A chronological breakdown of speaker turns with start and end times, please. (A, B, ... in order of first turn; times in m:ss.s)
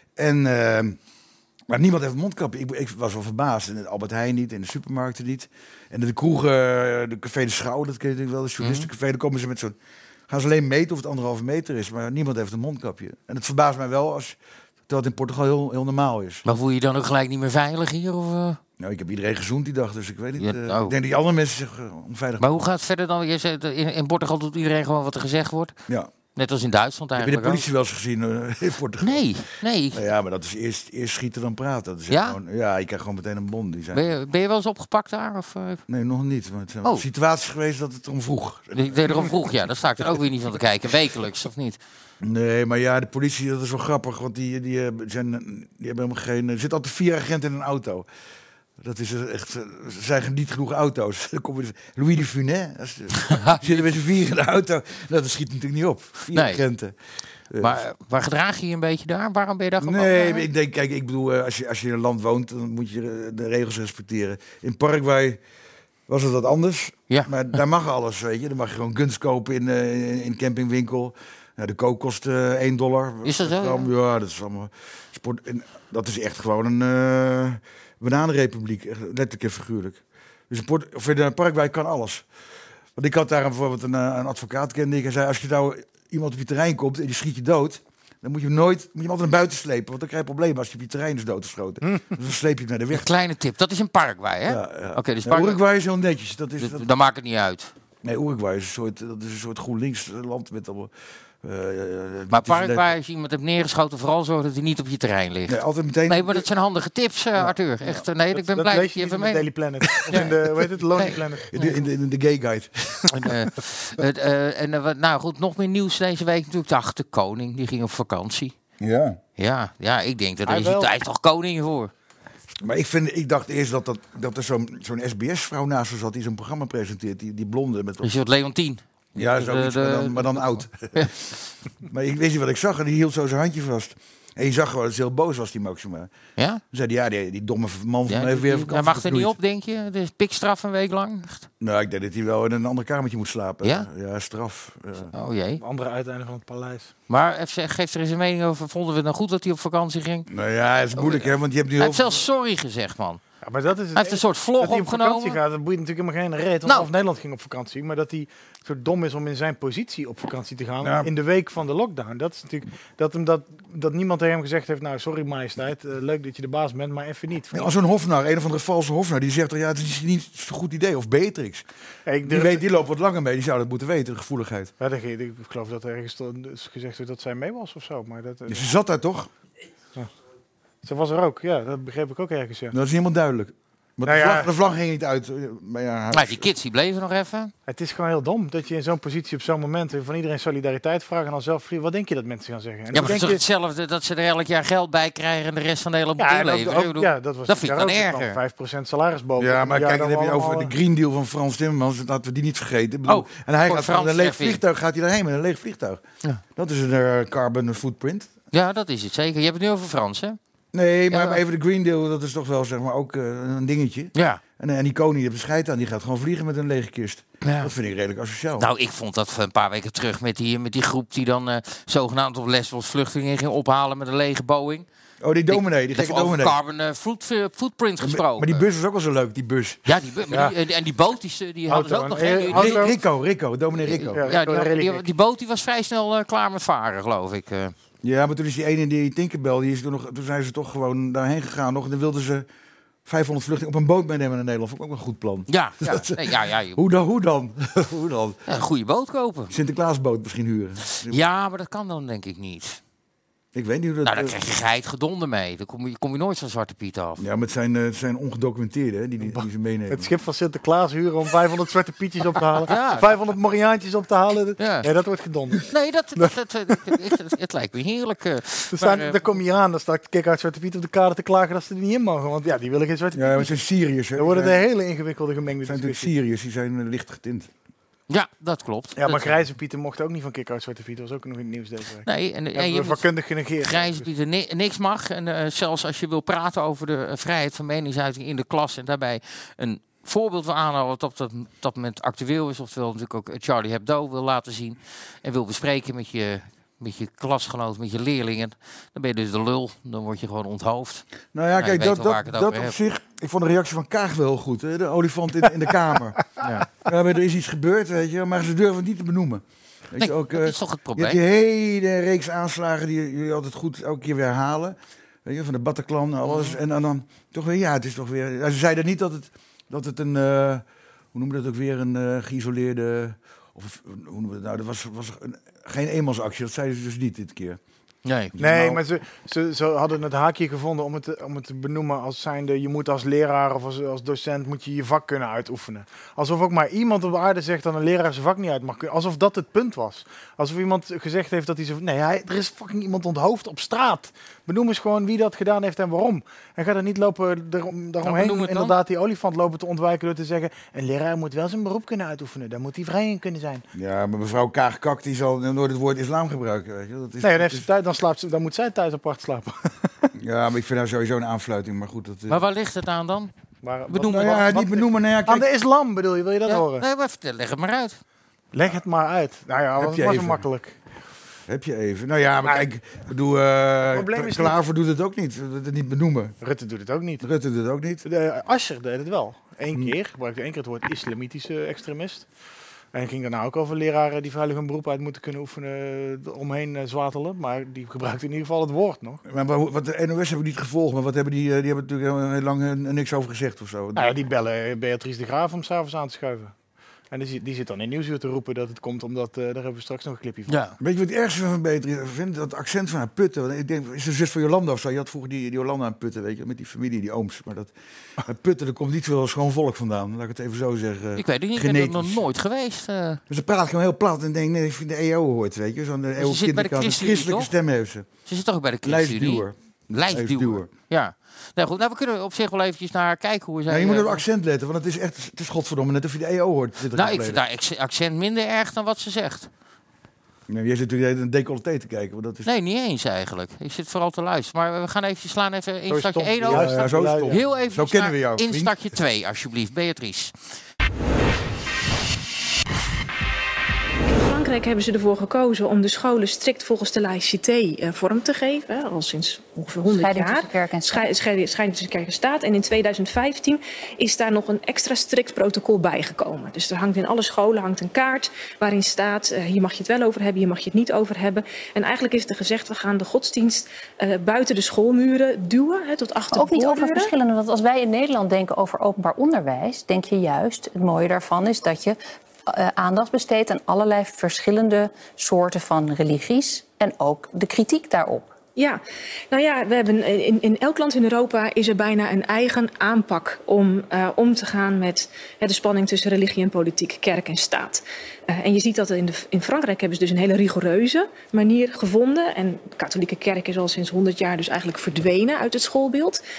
0:00.2-0:01.0 A
0:01.7-0:09.7 A
0:08.6-0:08.9 B
0:10.3-0:14.4 A
0:14.9-0:16.4 A
0:16.4-0:18.6 B
0:18.8-0:22.5 A
0:20.4-0:20.9 B
0:22.4-0:25.8 B
0:26.3-0:27.6 B
0:27.2-0:29.2 A
0:29.0-0:30.1 B
0:29.9-0:34.0 A
0:32.1-0:32.4 B
0:33.9-0:35.8 B
0:35.9-0:39.3 A
0:38.7-0:41.8 B
0:42.2-0:48.1 A
0:48.8-0:56.9 A
0:53.2-0:53.9 B
0:56.3-0:56.6 B
0:57.5-0:57.8 A
0:57.6-1:00.5 B
0:59.8-1:05.4 A
1:06.1-1:22.2 A
1:13.2-1:13.9 B
1:23.0-1:33.0 A
1:32.9-1:35.6 B
1:34.5-1:36.8 A
1:36.6-1:37.7 B
1:38.0-1:40.9 A
1:41.4-1:42.9 A
1:42.3-1:49.4 B
1:45.5-1:46.5 A
1:48.3-1:51.5 C
1:51.0-1:51.7 B
1:51.4-1:53.1 A
1:53.1-1:58.6 B
1:58.8-1:59.2 A
1:59.4-2:01.9 B
2:00.4-2:00.9 C
2:02.6-2:08.1 A
2:08.0-2:11.1 B
2:09.1-2:11.1 A
2:11.8-2:16.1 A
2:16.4-2:16.6 B
2:16.7-2:19.3 A
2:18.1-2:21.5 B
2:21.6-2:25.1 A
2:25.1-2:25.6 B
2:25.6-2:26.9 C
2:27.1-2:30.3 B
2:30.3-2:32.2 A
2:31.0-2:33.2 B
2:33.4-2:47.7 C
2:33.9-2:35.4 B
2:40.8-2:41.1 A
2:47.5-2:51.6 A
2:52.0-2:52.6 C
2:52.2-2:54.7 A
2:54.8-2:58.7 C
2:58.5-2:59.3 A
3:00.8-3:02.7 C
3:02.7-3:06.5 A
3:04.0-3:04.5 C
3:06.1-3:07.5 B
3:07.7-3:13.4 C
3:12.9-3:18.4 B
3:16.2-3:20.7 C
3:19.4-3:26.0 A
3:23.1-3:24.6 B
3:26.6-3:28.3 A
3:28.5-3:30.4 B
3:30.7-3:38.7 A
3:31.1-3:31.4 B
3:34.1-3:34.4 B
3:37.4-3:37.7 B
3:38.6-3:44.8 B
3:45.2-3:46.6 A
3:45.5-3:48.6 B
3:48.0-3:49.8 A
3:49.8-3:52.9 B
3:51.7-3:52.9 C
3:52.5-3:54.2 A
3:53.8-3:57.7 B
3:54.1-3:55.0 C
3:58.0-4:02.4 A
4:03.0-4:08.4 A
4:05.5-4:06.8 B
4:08.5-4:09.5 B
4:09.5-4:11.2 A
4:11.0-4:12.8 B
4:13.5-4:14.4 A
4:14.0-4:17.2 B
4:17.2-4:20.1 A
4:19.2-4:25.6 C
4:22.6-4:23.1 B
4:24.6-4:24.9 B
4:25.6-4:29.2 B
4:28.7-4:33.5 C
4:33.1-4:34.6 A
4:34.2-4:36.1 C
4:35.6-4:37.5 A
4:38.1-4:39.4 B
4:39.0-4:44.0 C
4:42.0-4:43.0 B
4:43.6-5:01.0 B
5:01.3-5:06.2 A
5:01.6-5:02.8 B
5:06.4-5:06.7 B
5:06.8-5:27.6 A
5:10.0-5:11.2 B
5:16.2-5:16.6 B
5:28.0-5:28.3 B
5:28.3-5:28.8 A
5:28.4-5:53.6 C
5:48.0-5:48.8 B
5:53.7-5:57.7 A
5:57.2-5:59.9 C
6:00.1-6:02.4 A
6:02.3-6:03.3 B
6:03.6-6:06.8 C
6:03.9-6:05.5 A
6:04.0-6:04.4 B
6:06.4-6:08.0 B
6:08.5-6:10.8 C
6:09.8-6:10.4 A
6:11.5-6:16.4 A
6:13.9-6:14.5 C
6:16.4-6:17.2 C
6:17.2-6:18.0 A
6:18.0-6:22.2 C
6:22.9-6:29.2 C
6:29.2-6:34.1 A
6:34.0-6:36.5 C
6:37.1-6:40.6 C
6:40.5-6:40.8 B
6:40.8-6:47.7 A
6:48.2-6:52.2 A
6:51.2-6:53.2 B
6:53.3-6:58.1 A
6:56.2-6:57.5 B
6:58.2-7:04.2 B
6:58.8-7:00.7 A
7:03.7-7:07.4 A
7:06.9-7:09.5 B
7:10.5-7:12.5 A
7:12.4-7:20.3 B
7:15.9-7:17.4 C
7:16.4-7:18.7 A
7:24.1-7:47.1 D
7:29.8-7:31.1 E
7:46.3-7:58.3 E
7:58.6-8:16.2 D